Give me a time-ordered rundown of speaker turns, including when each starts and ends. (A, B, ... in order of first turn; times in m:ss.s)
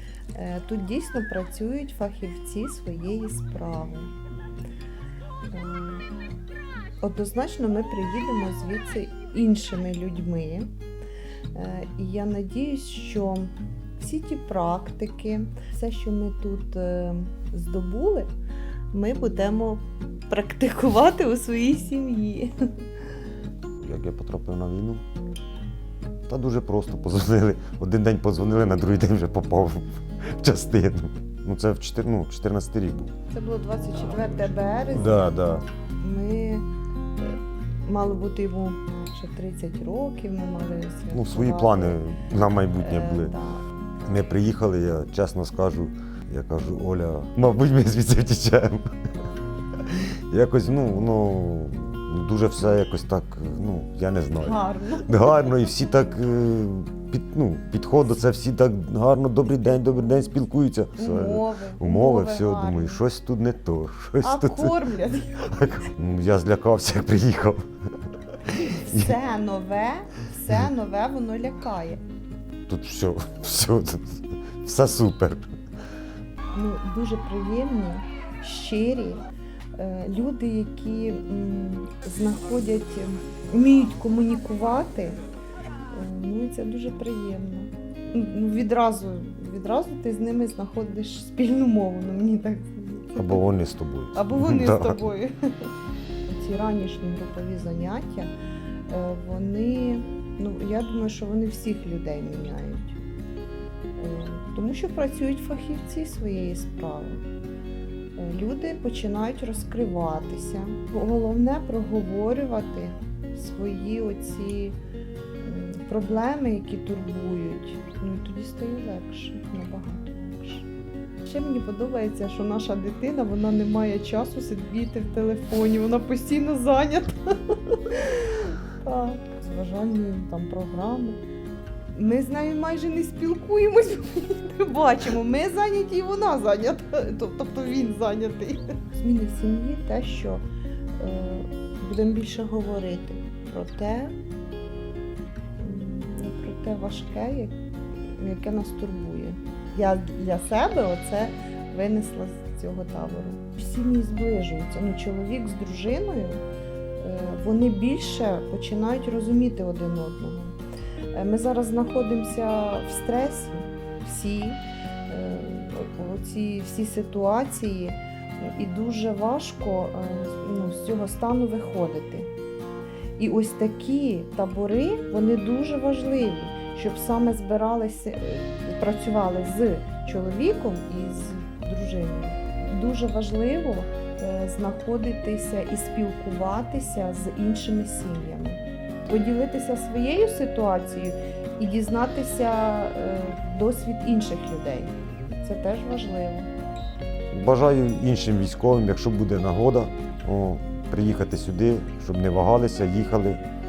0:00.4-0:04.1 A
0:05.5-0:06.1 A
0:07.0-0:10.7 A
0:11.5-0:18.3 A
0:18.9-0:22.5 A
0:23.8-0:25.0 B
0:26.3-0:33.1 B
0:33.3-0:36.7 A
0:34.9-0:35.6 B
0:37.2-0:42.0 A
0:41.1-0:43.3 B
0:42.8-0:43.6 A
0:44.0-0:48.9 B
0:49.8-1:04.8 B
0:54.4-0:55.4 A
1:01.0-1:03.0 A
1:04.2-1:05.8 A
1:05.5-1:07.6 B
1:08.5-1:09.2 B
1:08.6-1:12.0 A
1:12.7-1:15.5 B
1:16.5-1:19.2 A
1:19.8-1:25.2 A
1:25.9-1:33.4 A
1:33.2-1:35.0 B
1:34.1-1:35.3 A
1:36.3-1:38.3 A
1:38.9-1:43.0 A
1:44.0-1:47.2 A
1:48.2-1:54.8 A
1:55.4-2:00.7 A
2:01.2-2:11.2 A
2:11.9-2:20.4 A
2:21.0-2:24.2 A
2:25.6-2:36.4 A
2:37.0-2:40.6 A
2:41.1-2:52.3 A
2:53.2-3:16.5 A
3:17.3-3:23.4 B